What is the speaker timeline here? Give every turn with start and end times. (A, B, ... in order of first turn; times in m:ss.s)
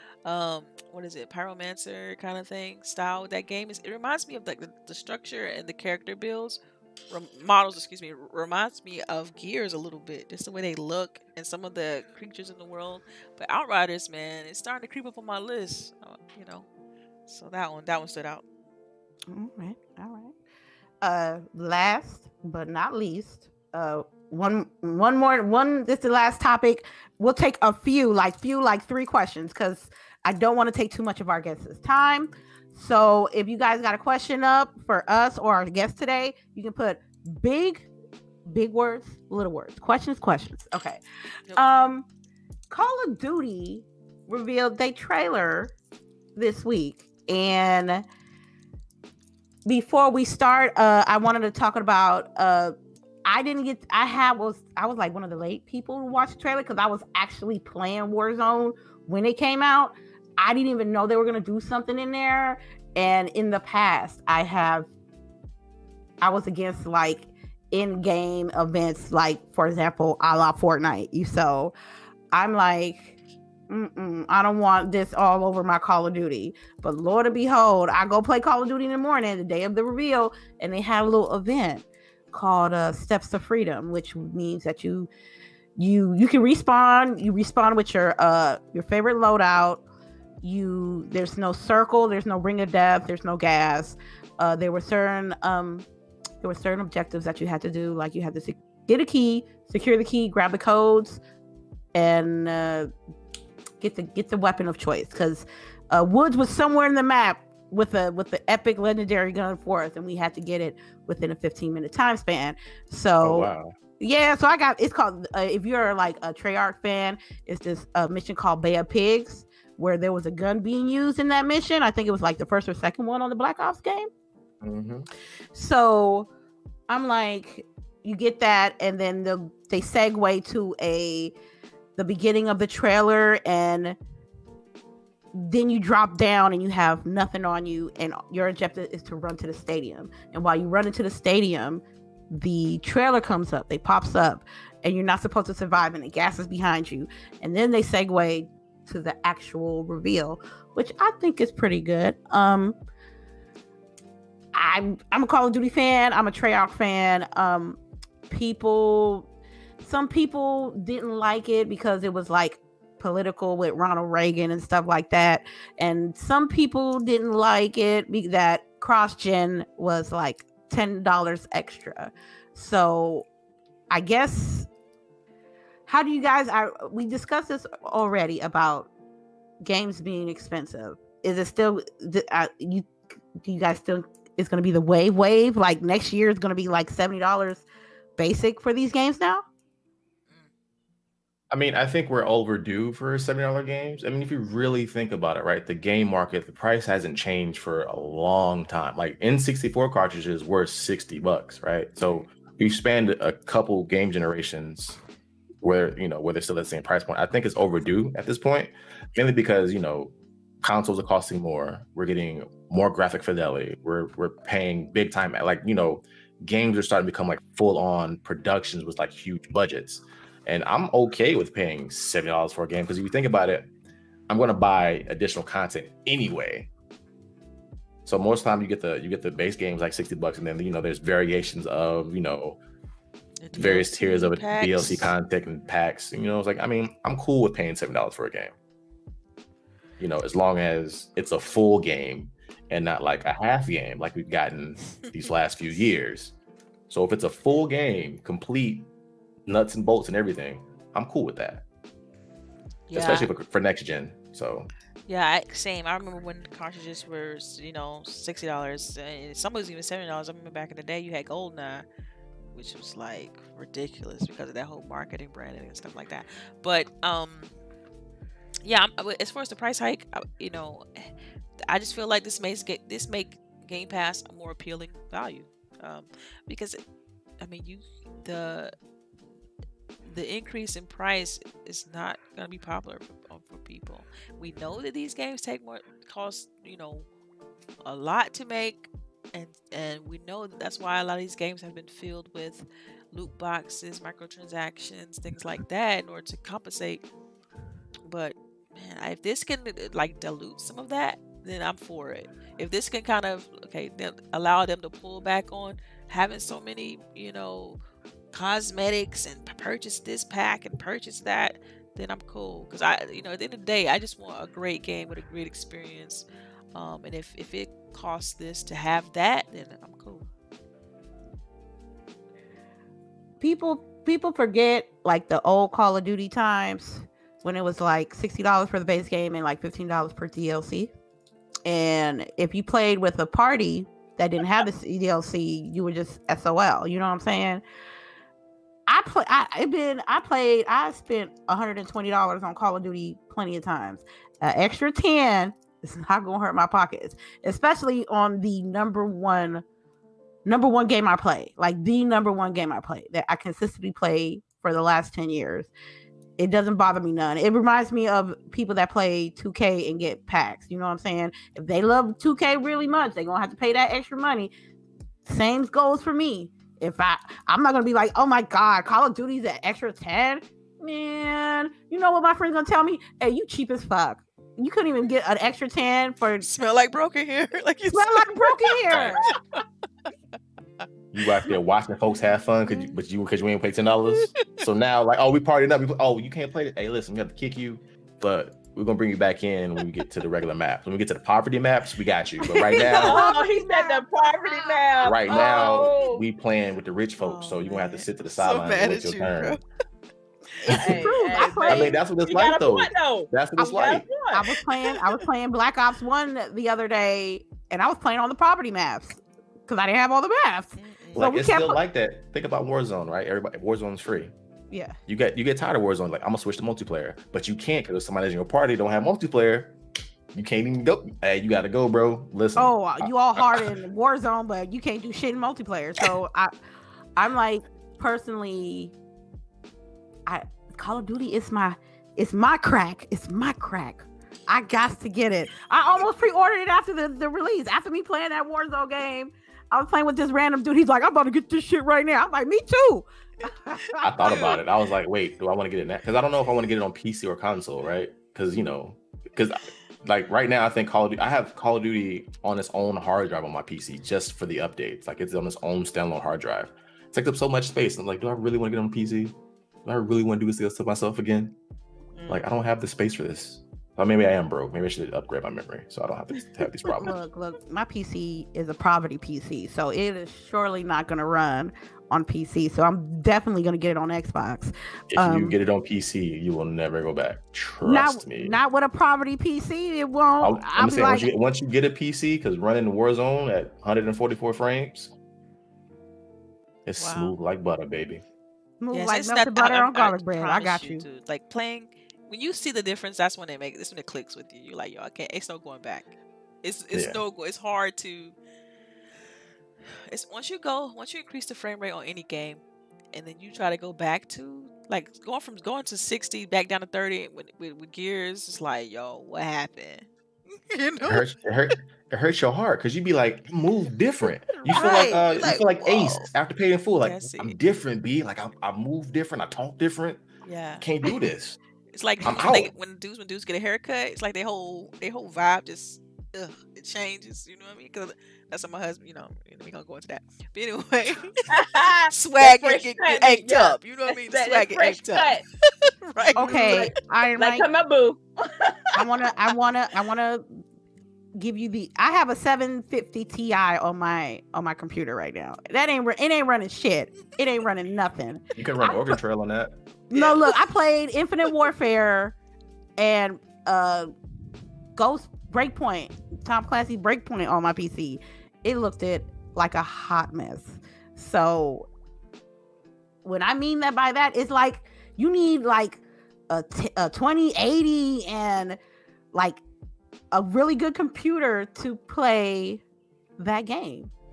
0:00.2-0:06.6 A
0:07.1-0:16.6 A
0:17.3-0:18.4 A
0:19.3-0:20.3 B
0:21.0-0:37.9 B
0:38.4-0:41.0 B
0:41.6-0:42.0 B
0:42.7-0:45.7 B
0:46.4-0:48.0 B
0:49.6-0:52.7 B
0:53.2-1:04.9 B
1:06.2-1:11.7 B
1:12.3-1:13.2 B
1:13.7-1:25.1 B
1:25.8-1:29.8 B
1:30.4-1:35.8 B
1:36.4-1:41.2 B
1:41.9-1:42.9 B
1:43.8-1:53.5 B
1:53.2-1:53.7 C
1:54.0-2:04.1 B
2:04.6-2:05.0 C
2:05.5-2:06.3 B
2:06.9-2:11.3 B
2:12.0-2:14.0 B
2:15.3-2:32.8 B
2:34.5-2:39.3 B
2:39.8-2:53.2 B
2:53.9-2:54.7 B
2:55.9-2:58.9 B
2:59.6-3:07.6 B
3:08.2-3:09.4 B
3:11.5-3:25.0 C
3:25.6-3:43.7 C
3:44.3-3:46.7 C
3:48.0-3:52.6 C
3:53.4-3:55.1 A
3:53.5-3:58.5 C
4:00.0-4:06.3 C
4:06.9-4:08.9 C
4:09.4-4:11.6 C
4:12.9-4:13.3 A
4:12.9-4:14.7 C
4:15.1-4:21.8 A
4:22.5-4:27.5 A
4:28.6-4:31.1 A
4:31.6-4:36.8 A
4:37.4-4:38.7 A
4:40.0-4:47.0 A
4:47.8-4:57.0 A
4:58.1-5:07.8 A
5:08.3-5:20.2 A
5:23.4-5:30.9 B
5:31.6-5:37.6 B
5:38.9-5:49.6 B
5:50.4-5:55.7 B
5:56.4-6:04.5 B
6:05.2-6:16.5 B
6:16.4-6:19.6 A
6:17.9-6:19.2 B
6:18.9-6:19.2 C
6:21.1-6:33.2 C
6:32.4-6:34.7 B
6:33.0-6:36.2 D
6:35.0-6:39.6 C
6:35.3-6:35.6 B
6:37.2-6:39.6 A
6:40.6-6:40.9 C
6:40.7-6:42.0 B
6:40.7-6:44.5 D
6:41.6-6:44.0 C
6:44.3-6:51.8 B
6:50.8-6:51.3 A
6:51.1-6:54.3 C
6:54.7-6:54.9 B
6:55.1-6:59.7 C
7:00.3-7:03.7 C
7:02.6-7:06.5 B
7:07.2-7:08.9 B
7:10.3-7:24.6 B
7:24.0-7:41.6 C
7:24.2-7:24.6 A
7:42.1-7:42.4 A
7:42.3-7:47.2 C
7:47.0-7:55.5 B
7:55.1-7:58.6 C
7:57.8-8:01.3 B
8:00.4-8:05.1 C
8:06.8-8:08.2 C
8:07.0-8:07.4 A
8:08.8-8:11.0 B
8:08.9-8:16.1 A
8:16.6-8:18.4 A
8:16.9-8:17.2 C
8:20.1-8:22.6 A
8:23.1-8:31.3 A
8:31.0-8:40.2 C
8:34.6-8:36.3 A
8:37.0-8:37.6 A
8:40.4-8:40.9 A
8:40.8-8:41.6 C
8:41.9-8:56.9 A
8:42.2-8:42.7 C
8:51.5-8:55.4 D
8:56.3-8:58.9 D
8:56.4-8:57.7 B
8:59.0-9:00.6 B
9:01.4-9:09.2 B
9:08.6-9:09.8 C
9:10.1-9:12.3 B
9:13.0-9:14.1 B
9:15.0-9:21.9 B
9:23.2-9:28.8 B
9:29.3-9:29.6 B
9:30.3-9:32.8 B
9:33.4-9:34.1 B